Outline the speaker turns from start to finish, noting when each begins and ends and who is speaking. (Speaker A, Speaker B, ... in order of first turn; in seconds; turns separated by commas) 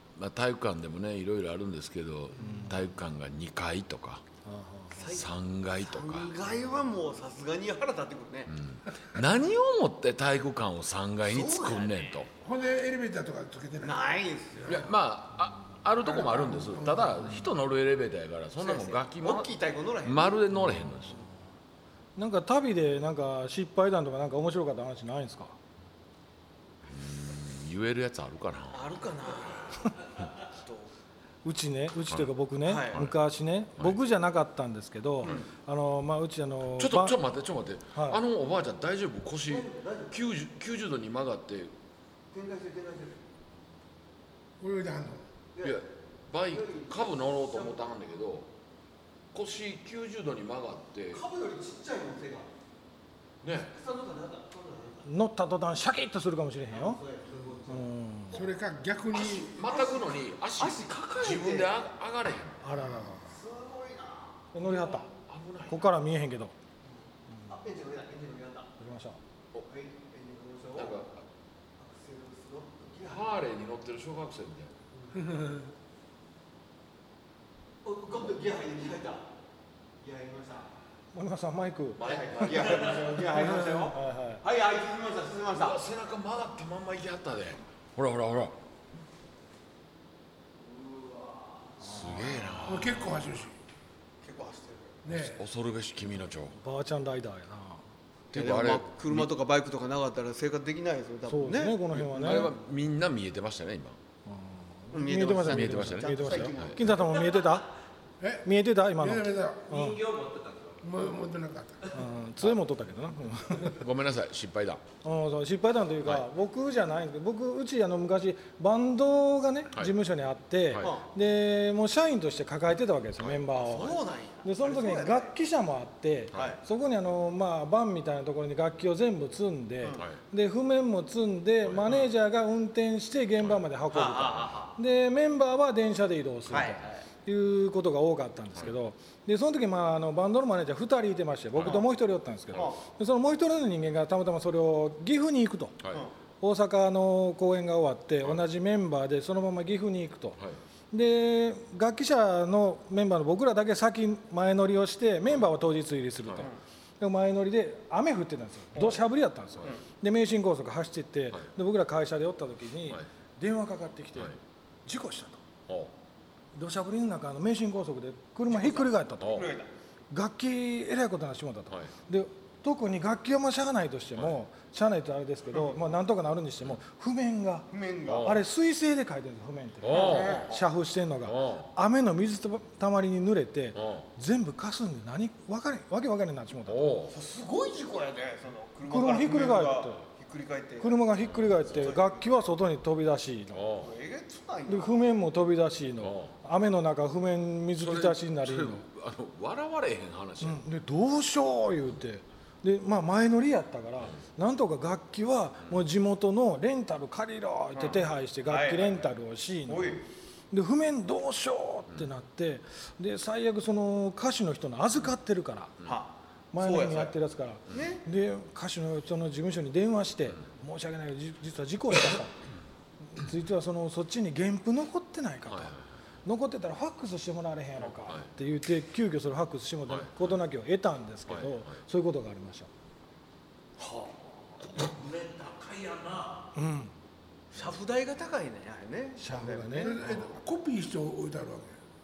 Speaker A: 0.1-4.2, Speaker B: 2.4-2.9, Speaker B: 4.4-5.0, Speaker C: 4.9-5.3, Speaker A: 5.0-6.3, Speaker C: 5.8-8.5, Speaker A: 8.5-12.3, Speaker C: 11.2-12.2, Speaker D: 12.4-14.0, Speaker C: 13.8-14.9, Speaker A: 14.7-21.2, Speaker D: 16.0-17.3, Speaker C: 18.6-20.4, Speaker B: 22.1-25.6, Speaker A: 26.9-29.0, Speaker C: 28.7-30.9, Speaker B: 31.4-37.1, Speaker C: 32.6-33.0, Speaker A: 35.2-35.5, Speaker A: 36.8-41.7, Speaker B: 37.9-38.2, Speaker C: 39.5-40.2, Speaker C: 42.3-43.2, Speaker D: 44.6-45.2, Speaker C: 45.5-45.8, Speaker A: 45.6-48.5, Speaker C: 46.5-47.8, Speaker A: 49.3-51.2, Speaker C: 51.1-52.5, Speaker A: 53.4-53.7, Speaker C: 53.5-55.1, Speaker B: 55.0-57.0, Speaker C: 56.7-57.9, Speaker B: 57.7-58.4, Speaker D: 58.3-59.5, Speaker A: 59.1-62.7, Speaker C: 59.7-61.7, Speaker B: 62.6-63.2, Speaker C: 63.2-64.4, Speaker B: 64.5-65.1, Speaker A: 64.6-65.9, Speaker B: 65.7-66.5, Speaker C: 67.5-68.7, Speaker B: 68.8-69.2, Speaker C: 69.7-71.0, Speaker A: 70.7-71.2, Speaker C: 71.8-73.3, Speaker A: 73.0-74.7, Speaker C: 75.0-75.2, Speaker D: 75.2-75.5, Speaker C: 77.8-79.3, Speaker C: 80.0-80.7, Speaker B: 81.1-82.0, Speaker A: 82.0-83.2, Speaker C: 82.0-85.8, Speaker B: 83.1-84.4, Speaker A: 85.5-88.5, Speaker C: 90.6-91.9, Speaker A: 91.8-93.0, Speaker B: 91.8-92.6, Speaker D: 92.7-93.5, Speaker C: 94.2-95.0, Speaker D: 95.0-95.4, Speaker A: 95.1-96.6, Speaker B: 96.6-97.8, Speaker A: 98.3-99.3, Speaker C: 98.3-102.5, Speaker B: 101.3-102.5, Speaker A: 101.9-104.0, Speaker B: 104.2-107.7, Speaker C: 104.9-107.1, Speaker A: 105.4-106.9, Speaker E: 107.2-107.6, Speaker D: 108.2-108.5, Speaker B: 108.4-110.0, Speaker D: 109.0-109.7, Speaker E: 109.7-110.8, Speaker D: 110.8-111.9, Speaker B: 111.9-113.8, Speaker A: 113.6-114.8, Speaker B: 115.0-145.8, Speaker A: 120.7-120.9, Speaker C: 120.8-121.1, Speaker A: 123.2-124.0, Speaker C: 123.5-125.3, Speaker A: 126.3-126.6, Speaker C: 126.3-126.6, Speaker A: 131.7-132.0, Speaker C: 133.9-134.7, Speaker C: 136.5-137.0, Speaker A: 141.6-141.8, Speaker C: 142.5-142.8, Speaker A: 145.8-146.0, Speaker B: 146.4-150.4, Speaker B: 150.9-164.3, Speaker B: 164.8-165.4, Speaker B: 166.5-169.4, Speaker C: 168.5-169.7, Speaker A: 169.2-169.5, Speaker B: 170.1-186.9, Speaker C: 177.7-178.3, Speaker A: 178.1-178.4, Speaker A: 179.8-180.5, Speaker C: 179.9-180.6, Speaker A: 181.2-181.7, Speaker A: 183.7-184.0, Speaker A: 186.7-187.1, Speaker C: 187.1-191.0, Speaker B: 188.9-190.0, Speaker B: 190.8-193.7, Speaker A: 191.2-191.9, Speaker C: 191.7-192.3, Speaker A: 193.5-193.9, Speaker C: 193.8-195.0, Speaker B: 194.7-198.8, Speaker A: 196.0-196.3, Speaker A: 197.8-200.6, Speaker B: 200.4-210.0, Speaker C: 207.7-209.1, Speaker C: 209.7-210.1, Speaker B: 210.5-215.8, Speaker C: 215.8-217.1, Speaker B: 216.5-222.4, Speaker C: 217.7-218.0, Speaker B: 223.1-232.7, Speaker A: 225.5-225.8, Speaker A: 227.8-228.3, Speaker A: 229.9-230.3, Speaker A: 231.3-231.8, Speaker C: 233.8-234.5, Speaker E: 234.7-236.5, Speaker B: 236.5-236.9, Speaker C: 237.5-240.0, Speaker B: 239.2-240.0, Speaker D: 239.7-241.8